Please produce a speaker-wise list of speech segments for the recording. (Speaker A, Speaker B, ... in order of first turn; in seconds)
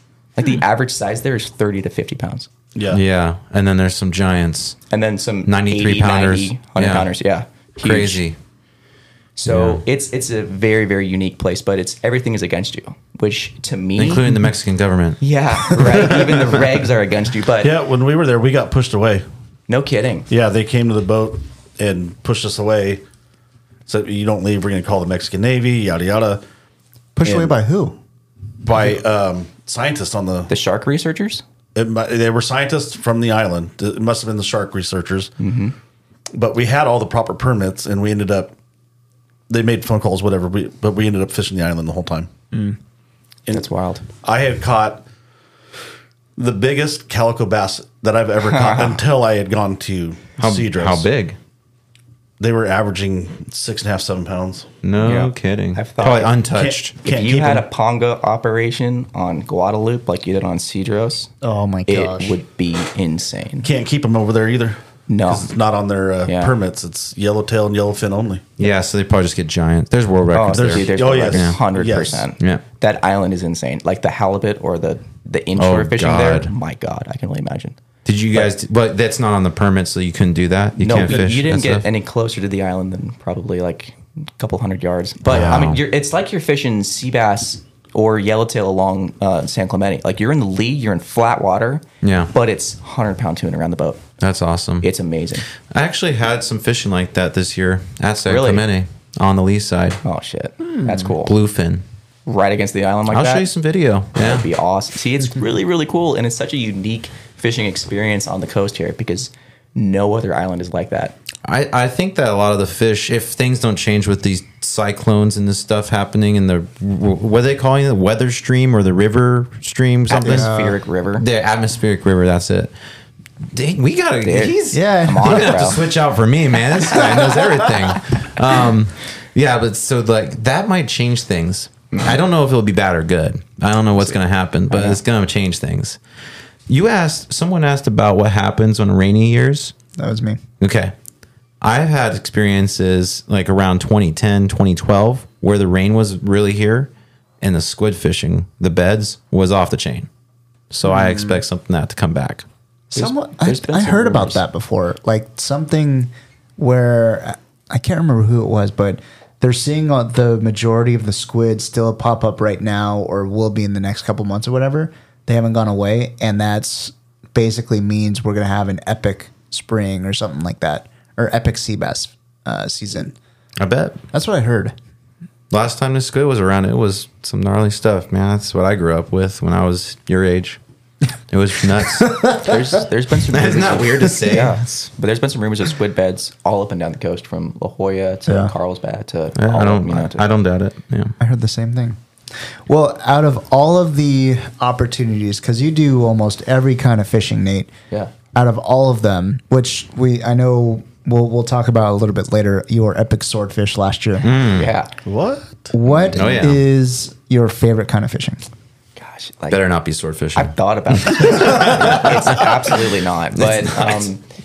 Speaker A: 0.3-2.5, 4.9-8.2, 9.3-14.2, 15.2-17.7, 19.7-20.3, 27.2-27.5, 30.5-31.4, 35.4-35.7, 43.5-44.0, 48.5-49.0, 55.0-56.4, 57.0-61.3, 61.9-63.7, 65.1-65.5, 66.2-66.5, 70.3-77.8, 80.8-94.0, 94.8-95.5, 98.3-98.6, 100.0-101.3, 102.2-103.5, 104.2-111.1, 120.1-121.2, 124.2-125.8, 134.7-135.0, 152.9-154.4, 182.3-190.2, 204.5-204.9, 209.0-209.6, 210.3-214.2
Speaker B: 2.7-3.0, 17.6-19.2, 20.3-23.0, 23.9-26.4, 28.6-30.5, 31.7-35.3, 36.3-38.5, 39.5-42.3, 44.2-45.0, 46.4-51.1, 52.4-54.7, 56.5-57.6, 63.6-68.5, 70.5-72.3, 81.0-81.2, 205.0-205.7
Speaker C: 2.9-4.8, 5.5-7.1, 7.8-8.3, 9.5-9.8, 14.0-15.2, 50.4-51.4, 54.8-56.9, 68.6-71.6, 75.6-76.5, 78.0-81.8, 85.2-85.8, 92.0-92.3, 94.2-94.9, 95.6-100.0, 100.8-101.8, 103.1-104.5, 111.4-120.5, 121.2-122.7, 123.5-136.0, 136.7-139.7, 140.6-140.9, 141.6-146.9, 147.4-150.1, 150.7-152.4, 173.6-174.0, 175.5-180.6, 181.3-182.5, 183.3-184.6, 189.3-191.1, 204.2-204.7, 206.1-206.6, 209.5-212.4, 213.4-214.0
Speaker D: 27.1-28.0, 61.4-62.4, 120.2-120.8, 124.7-125.6, 140.0-140.4, 150.8-151.4, 152.9-173.1, 174.1-174.7, 182.0-182.4, 188.3-188.5, 191.2-192.0, 192.7-197.7, 198.3-204.4, 205.7-208.4